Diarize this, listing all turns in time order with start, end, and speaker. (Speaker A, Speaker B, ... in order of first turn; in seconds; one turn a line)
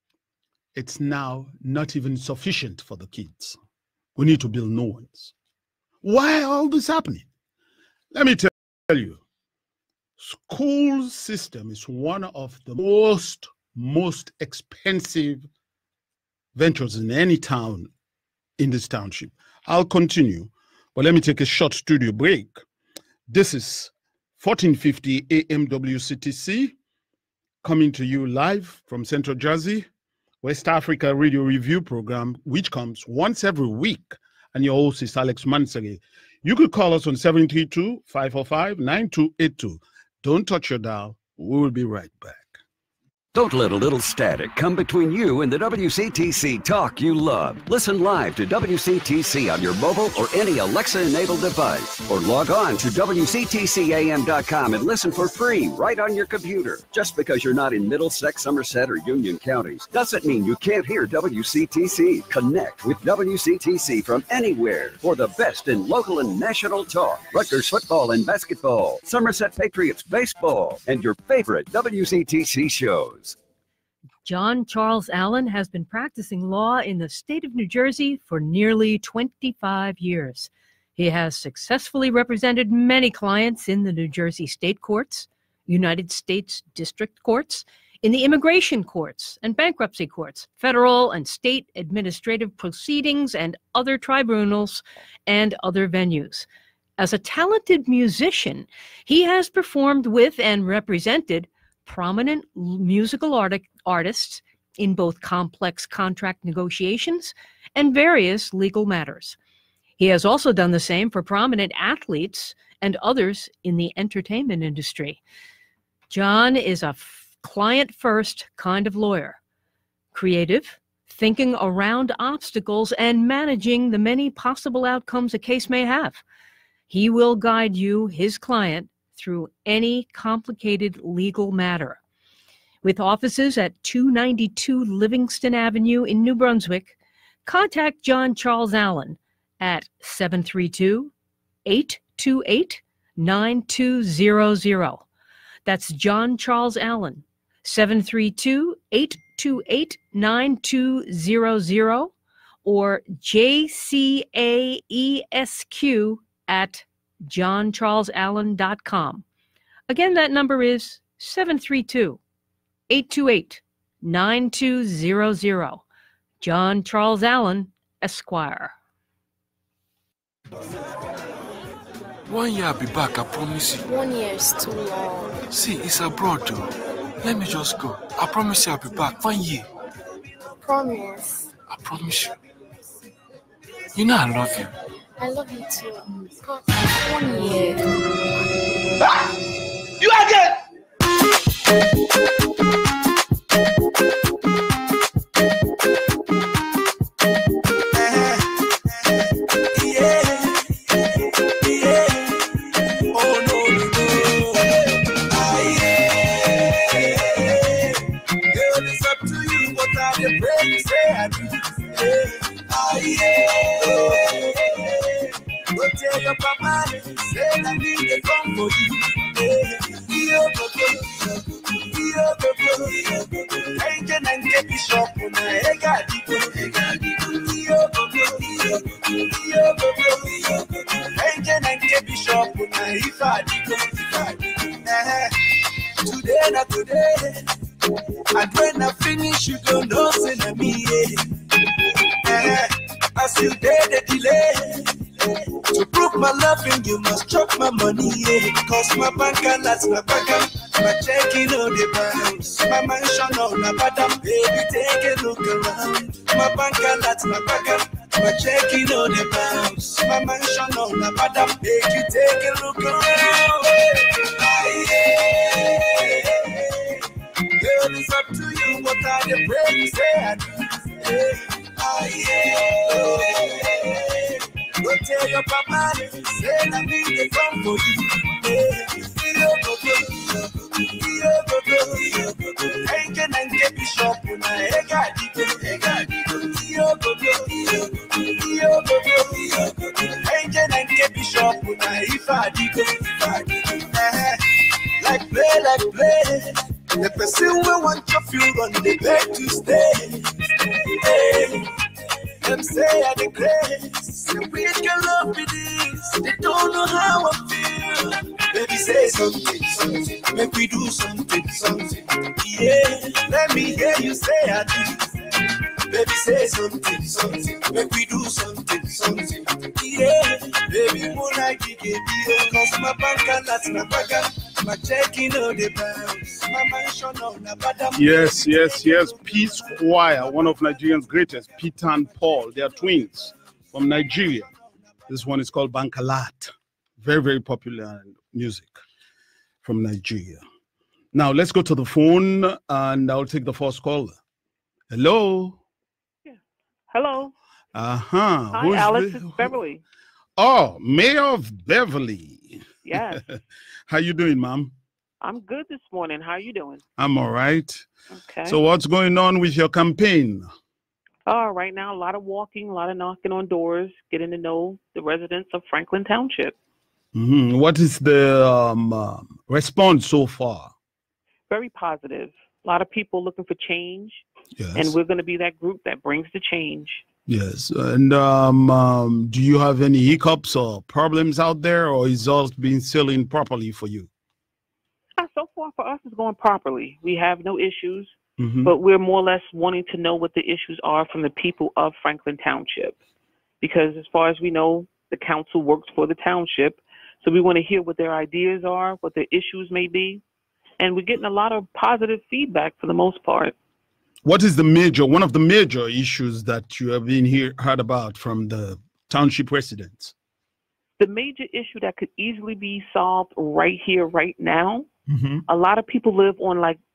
Speaker A: 0.8-3.6
Speaker A: 4.2-5.3
Speaker A: 6.0-7.3
Speaker A: 8.1-9.2
Speaker A: 10.2-15.5
Speaker A: 16.6-17.9
Speaker A: 18.6-22.6
Speaker A: 23.3-26.8
Speaker A: 27.6-29.9
Speaker A: 30.4-42.6
Speaker B: 43.3-73.4
Speaker C: 74.2-96.5
Speaker C: 97.0-109.4
Speaker C: 110.0-115.2
Speaker C: 116.1-119.4
Speaker C: 120.1-126.2
Speaker C: 126.9-132.0
Speaker C: 132.8-141.1
Speaker C: 141.7-145.1
Speaker C: 145.7-152.1
Speaker C: 152.7-159.2
Speaker C: 159.9-162.2
Speaker C: 162.9-165.8
Speaker C: 166.4-168.8
Speaker D: 172.3-173.9
Speaker E: 173.8-175.4
Speaker D: 175.5-179.7
Speaker E: 180.6-181.5
Speaker D: 181.7-182.3
Speaker D: 183.9-184.7
Speaker E: 185.2-187.8
Speaker F: 189.0-189.3
Speaker F: 190.0-190.6
Speaker F: 197.9-237.5
Speaker F: 238.3-241.3
Speaker F: 242.2-301.7
Speaker F: 302.4-329.7
Speaker A: 327.9-334.5
Speaker A: 335.1-338.8
Speaker A: 339.6-340.4
Speaker A: 341.1-344.2
Speaker A: 344.9-345.6
Speaker G: 346.9-347.3
Speaker A: 347.7-349.6
Speaker G: 348.5-349.8
Speaker A: 350.4-353.4
Speaker G: 352.9-353.2
Speaker A: 353.9-354.7
Speaker G: 355.2-356.8
Speaker A: 357.0-357.9
Speaker G: 358.1-358.6
Speaker A: 358.4-360.5
Speaker G: 361.3-366.5
Speaker A: 367.1-370.7
Speaker G: 371.5-377.0
Speaker A: 374.6-375.0
Speaker A: 377.3-384.1
Speaker G: 385.2-393.0
Speaker A: 388.4-388.7
Speaker G: 393.6-400.2
Speaker G: 400.8-403.6
Speaker A: 404.2-410.1
Speaker G: 411.0-414.9
Speaker A: 415.1-415.4
Speaker G: 415.5-416.8